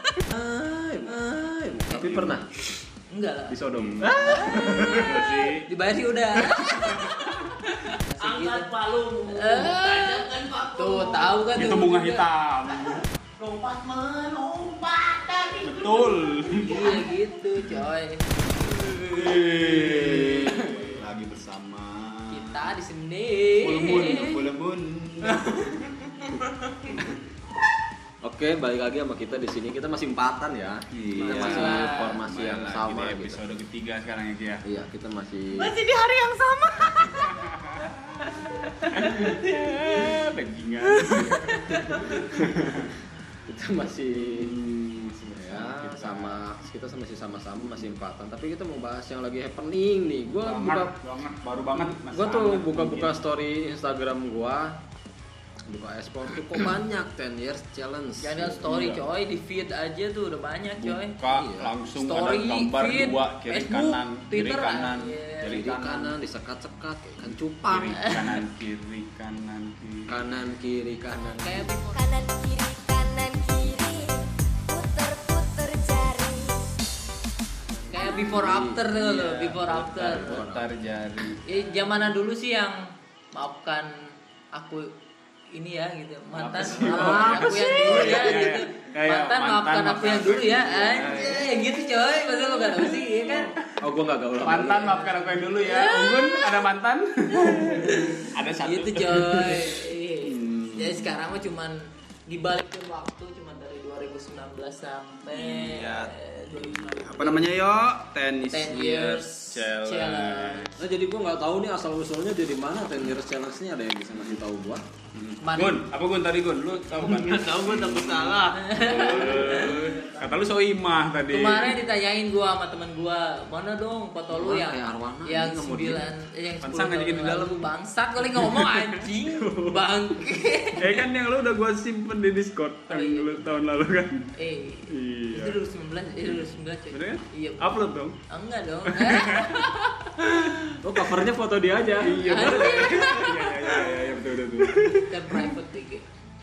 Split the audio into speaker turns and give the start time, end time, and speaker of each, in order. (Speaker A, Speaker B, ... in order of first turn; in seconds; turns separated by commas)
Speaker A: 0.3-2.5, Speaker B: 1.9-2.4, Speaker C: 3.1-3.6, Speaker A: 3.5-5.2, Speaker B: 3.7-5.7, Speaker C: 4.2-8.7, Speaker B: 6.6-7.3, Speaker D: 8.2-11.5, Speaker C: 9.3-12.2, Speaker B: 11.6-13.1, Speaker D: 12.7-17.0, Speaker B: 15.6-16.8, Speaker C: 16.6-18.9, Speaker B: 18.6-22.7, Speaker C: 20.2-20.8, Speaker C: 22.3-24.4, Speaker B: 23.6-25.9, Speaker A: 28.2-33.4, Speaker B: 30.9-34.6, Speaker C: 31.2-32.2, Speaker A: 34.6-35.8, Speaker D: 35.5-37.3, Speaker B: 37.4-37.7, Speaker D: 38.3-40.2, Speaker B: 38.9-43.0, Speaker A: 41.1-42.8, Speaker A: 43.5-44.5, Speaker B: 44.2-46.4, Speaker A: 45.3-51.0, Speaker B: 50.4-53.1, Speaker A: 52.1-54.8, Speaker A: 55.6-58.7, Speaker C: 58.2-61.1, Speaker B: 58.6-59.0, Speaker B: 60.8-66.2, Speaker A: 61.3-61.7, Speaker C: 62.0-65.5, Speaker A: 65.5-68.0, Speaker B: 67.7-70.2, Speaker A: 70.1-71.7, Speaker C: 71.4-72.0, Speaker E: 71.5-76.7, Speaker A: 77.7-78.8, Speaker C: 77.9-80.4, Speaker B: 78.9-81.4, Speaker A: 79.7-80.7, Speaker C: 81.4-83.9, Speaker C: 84.5-84.9, Speaker C: 85.5-93.5, Speaker B: 86.3-91.5, Speaker A: 86.6-88.1, Speaker A: 93.3-95.0, Speaker B: 94.4-99.7, Speaker C: 94.9-96.7, Speaker C: 97.3-107.5, Speaker B: 100.2-101.1, Speaker B: 105.3-110.7, Speaker C: 108.5-110.7, Speaker A: 110.8-114.9, Speaker B: 115.1-121.8, Speaker C: 115.4-115.8, Speaker D: 116.9-120.1, Speaker C: 118.5-119.9, Speaker C: 121.3-131.0, Speaker A: 124.3-126.1, Speaker B: 126.6-127.7, Speaker B: 128.3-129.8, Speaker B: 130.8-134.3, Speaker C: 132.9-133.4, Speaker C: 134.4-140.8, Speaker B: 134.9-135.6, Speaker B: 136.9-138.2, Speaker B: 138.9-139.7, Speaker A: 140.8-142.4, Speaker B: 142.0-145.1, Speaker C: 142.1-146.1